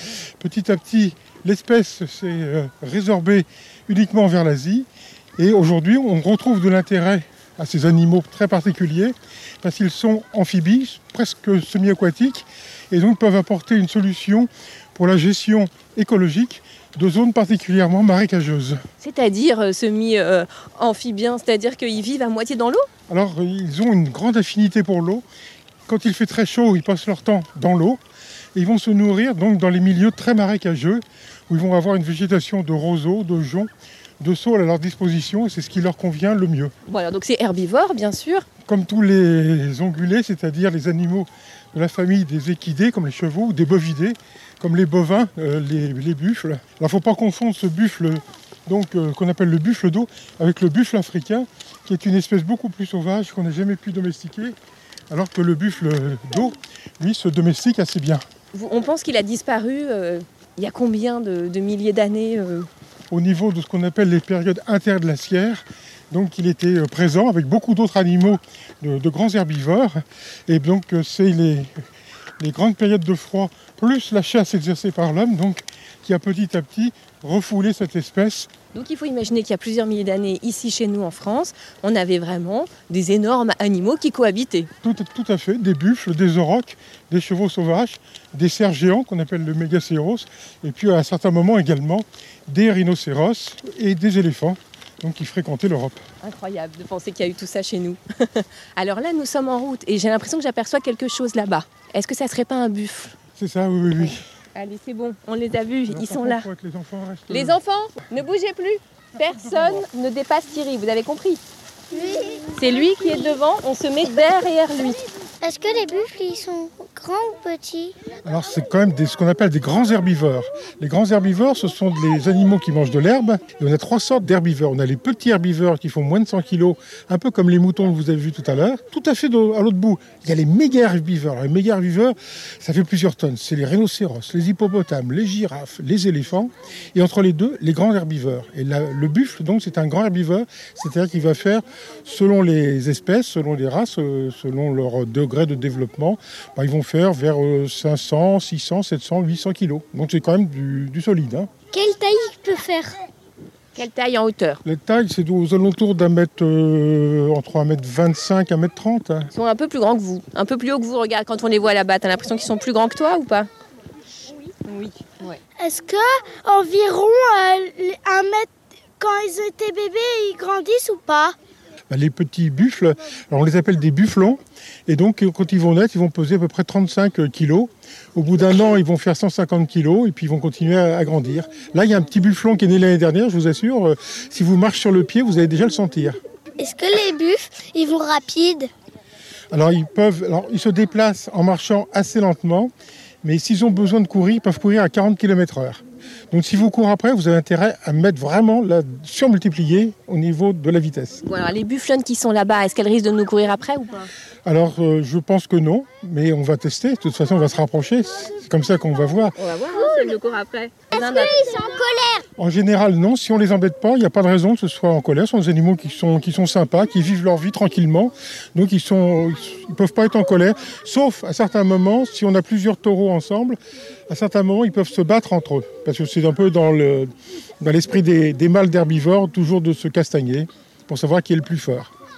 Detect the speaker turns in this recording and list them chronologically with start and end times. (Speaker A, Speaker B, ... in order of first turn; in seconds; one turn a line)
Speaker A: 0.4-18.8
Speaker B: 19.0-22.9
Speaker A: 23.1-25.2
Speaker A: 25.9-28.0
Speaker A: 28.5-36.7
Speaker B: 36.9-38.5
Speaker A: 38.6-54.5
Speaker A: 55.1-58.2
Speaker B: 58.5-62.7
Speaker A: 63.1-71.7
Speaker A: 72.4-78.5
Speaker B: 78.7-84.7
Speaker A: 84.8-96.0
Speaker B: 96.2-103.1
Speaker A: 103.4-104.2
Speaker B: 104.0-106.5
Speaker A: 105.9-107.6
Speaker B: 107.3-111.4
Speaker A: 109.2-109.9
Speaker C: 111.9-112.6
Speaker B: 112.5-115.0
Speaker C: 115.4-117.9
Speaker A: 118.2-151.5
Speaker C: 151.7-152.9
Speaker B: 153.7-154.6
Speaker A: 154.6-159.3
Speaker B: 159.3-163.5
Speaker B: 164.6-165.4
Speaker C: 165.6-171.3
Speaker A: 171.9-186.2
Speaker C: 186.6-188.7
Speaker A: 189.5-192.7
Speaker A: 193.2-201.2
Speaker B: 201.2-204.1
Speaker A: 204.4-209.3
Speaker B: 209.3-211.4
Speaker C: 210.9-212.2
Speaker A: 212.4-223.6
Speaker A: 224.1-227.1
Speaker A: 227.6-231.9